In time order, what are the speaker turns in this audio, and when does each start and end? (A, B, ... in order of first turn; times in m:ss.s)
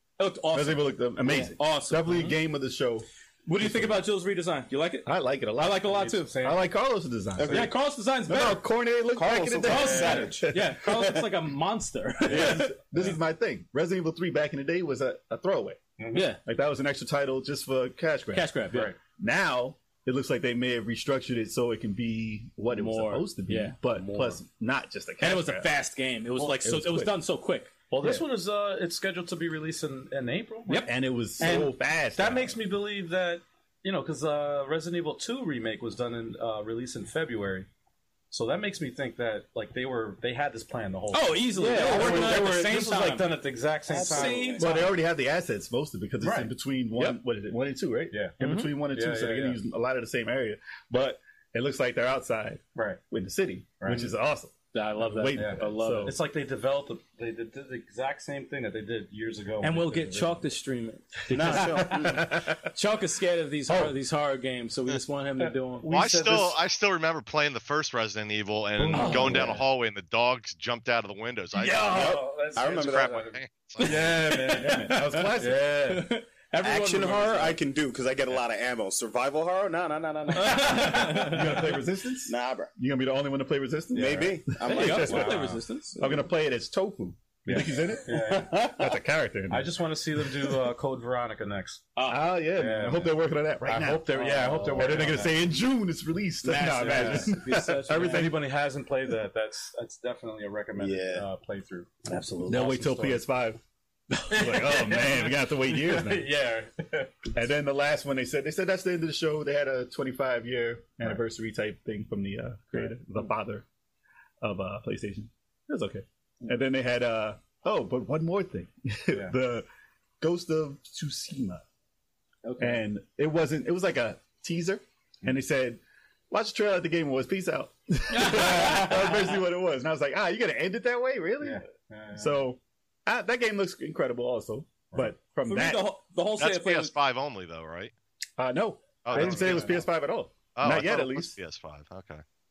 0:00.2-0:02.4 A
0:00.5-0:04.0 B
0:03.5-0:06.4 A
0:05.1-0:07.8 B
0:05.8-0:06.7 C
0:07.4-0:07.7 D
0:07.5-0:08.7 A
0:08.3-0:11.1 B
0:09.1-0:11.2 D
0:09.6-0:12.8 A
0:09.7-0:10.3 C
0:12.2-0:15.8 B
0:12.3-0:13.2 C
0:16.0-0:16.3 C
0:16.1-0:16.4 A
0:16.4-0:18.6 B
0:18.3-0:18.9 A
0:18.7-0:19.0 C
0:19.2-0:25.7 B
0:22.7-0:24.3 A
0:24.0-0:24.3 C
0:25.2-0:27.7 A
0:26.4-0:27.2 B
0:27.9-0:37.7 C
0:30.7-0:31.0 A
0:30.8-0:32.6 B
0:38.3-0:44.7 C
0:41.1-0:43.4 A
0:41.6-0:42.8 B
0:43.9-0:44.8 D
0:44.0-0:44.9 A
0:44.6-0:56.2 B
0:46.2-0:46.5 C
0:48.1-0:49.6 C
0:48.4-0:48.7 A
0:52.8-0:53.0 C
0:53.8-0:54.1 C
0:54.7-0:56.2 A
0:55.3-1:00.4 C
0:59.6-1:05.9 A
1:01.3-1:02.3 D
1:01.4-1:02.7 B
1:03.7-1:04.0 B
1:05.8-1:06.6 C
1:05.9-1:14.3 E
1:08.8-1:09.6 C
1:08.9-1:09.6 A
1:11.6-1:16.1 C
1:11.8-1:12.2 A
1:12.6-1:13.4 D
1:13.8-1:17.6 A
1:14.5-1:15.6 B
1:16.6-1:21.6 D
1:20.3-1:21.6 A
1:20.4-1:21.2 C
1:21.0-1:30.5 B
1:22.3-1:22.7 D
1:23.9-1:25.6 D
1:23.9-1:25.6 C
1:24.6-1:26.2 A
1:27.4-1:28.8 C
1:29.5-1:31.9 C
1:32.0-1:32.4 A
1:32.0-1:34.2 B
1:32.5-1:35.4 C
1:34.1-1:35.1 A
1:34.7-1:38.4 B
1:36.4-1:38.3 A
1:36.7-1:43.2 C
1:40.8-1:41.3 D
1:42.4-1:43.6 B
1:44.2-1:46.3 B
1:44.3-1:47.3 C
1:47.3-1:53.7 B
1:54.4-1:59.7 B
2:00.2-2:01.6 B
2:02.4-2:02.8 A
2:02.6-2:11.6 B
2:08.1-2:09.3 A
2:08.6-2:08.9 C
2:11.4-2:12.4 C
2:12.2-2:15.9 B
2:15.4-2:17.0 A
2:16.4-2:17.9 E
2:18.4-2:21.3 B
2:19.0-2:19.7 E
2:19.1-2:19.8 C
2:20.6-2:22.2 E